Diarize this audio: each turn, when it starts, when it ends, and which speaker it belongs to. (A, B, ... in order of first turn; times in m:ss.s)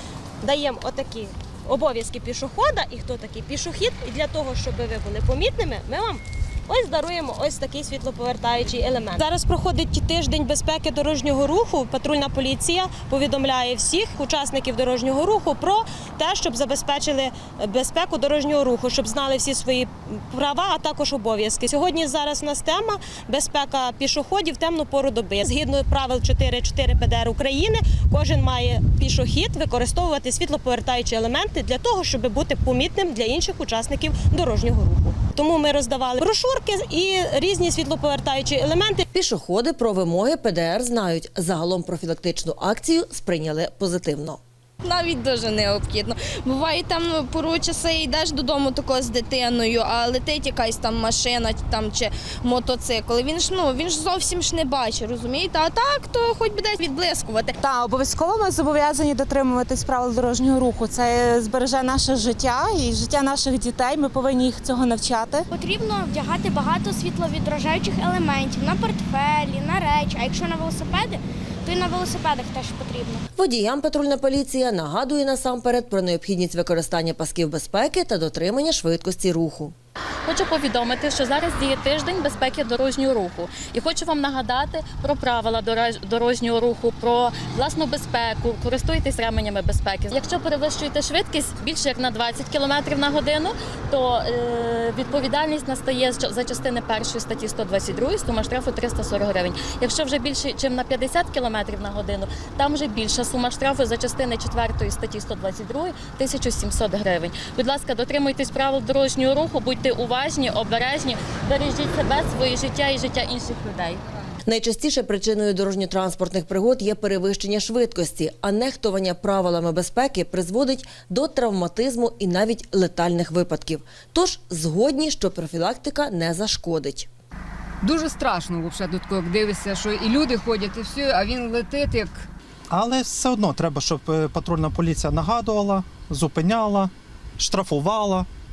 0:00.4-0:39.0 A
0:39.1-0:44.4 B
0:44.9-0:57.5 C
0:57.6-1:05.5 D
1:05.5-1:13.2 E
1:13.4-1:19.7 B
1:20.2-1:54.0 F
1:54.4-2:07.1 B
2:07.8-2:12.3 G
2:12.7-2:18.3 H